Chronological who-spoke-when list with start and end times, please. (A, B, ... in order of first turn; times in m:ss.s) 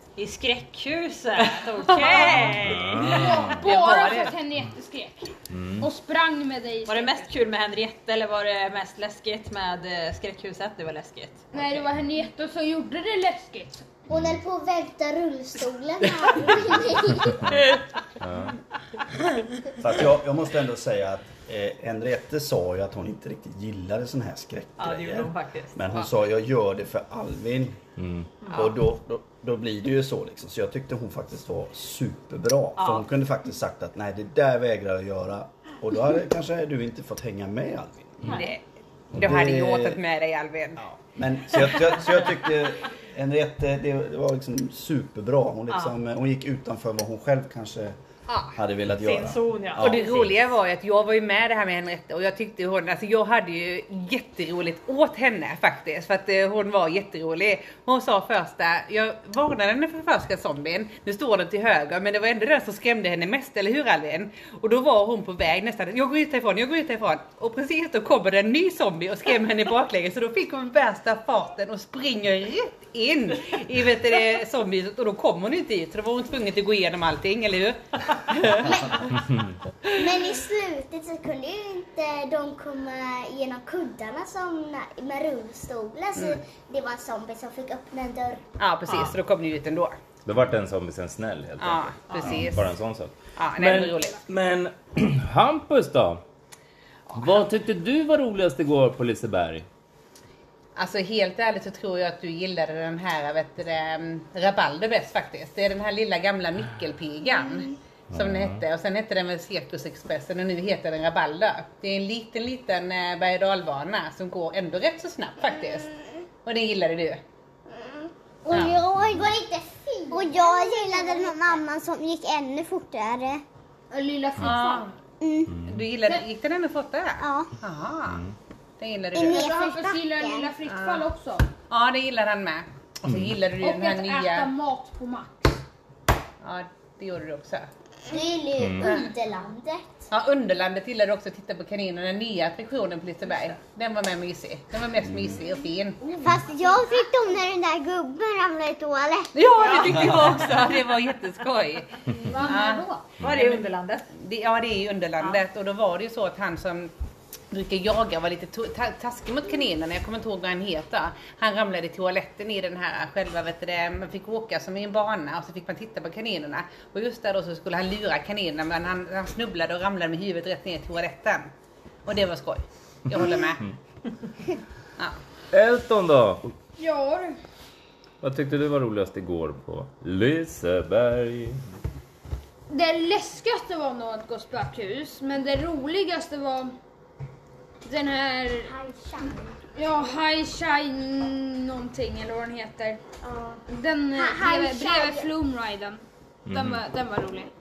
0:00.2-0:03.2 A
0:01.6-0:02.7 B
0:02.3-0:07.3 C
0:02.6-0:03.7 D
0:03.6-0:04.3 B
0:05.5-0:05.9 D
0:06.8-0:11.8 A
0:11.5-0:13.9 C
0:14.1-0:14.4 D
0:14.1-0:17.6 E
0:17.2-0:18.6 D
0:19.8-0:27.8 F
0:24.8-0:25.9 A
0:28.0-0:28.3 D
0:28.4-0:28.7 A
0:28.5-0:38.4 F
0:32.8-0:33.1 A
0:38.2-0:38.6 B
0:39.1-0:40.0 F
0:39.1-0:40.8 B
0:40.8-0:48.0 F
0:48.3-0:48.6 B
0:48.5-0:50.2 F
0:48.9-0:50.0 A
0:49.8-1:18.8 B
0:50.0-0:50.2 D
1:18.6-1:19.0 E
1:19.1-1:19.6 D
1:19.9-1:28.4 E
1:28.6-1:30.0 B
1:28.9-1:29.2 D
1:30.2-1:36.2 D
1:31.6-1:32.6 B
1:33.4-1:34.2 B
1:37.1-1:39.6 D
1:40.8-1:55.9 B
1:48.1-1:48.6 D
1:56.4-1:57.2 B
1:58.4-2:03.4 E
1:58.5-1:58.8 B
1:58.6-1:59.3 D
2:00.1-2:01.4 C
2:03.9-2:04.9 C
2:04.4-2:04.9 B
2:05.2-2:05.5 E
2:05.5-2:05.8 D
2:05.6-2:08.2 B
2:07.2-2:07.5 E
2:08.1-2:08.3 D
2:08.8-2:09.5 B
2:09.1-2:10.5 E
2:09.1-2:11.5 C
2:10.7-2:11.0 B
2:11.7-2:14.5 B
2:13.0-2:13.4 D
2:13.6-2:15.6 C
2:16.4-2:17.7 B
2:18.1-2:20.0 E
2:18.6-2:18.9 D
2:18.8-2:19.1 B
2:20.1-2:26.0 B
2:26.0-2:26.8 C
2:26.2-2:29.3 E
2:29.3-2:33.6 B
2:32.2-2:33.0 C
2:33.2-2:34.1 A
2:34.2-2:36.9 B
2:37.5-2:51.5 B
2:52.0-2:53.6 B
2:53.1-2:53.8 D
2:55.5-2:56.5 D
2:56.8-2:57.4 C
2:58.2-3:01.6 D
3:02.7-3:06.7 C
3:07.8-3:08.7 C
3:08.6-3:09.5 E
3:09.7-3:13.0 C
3:13.2-3:13.6 E
3:13.7-3:17.5 C
3:14.1-3:15.3 E
3:16.4-3:16.8 D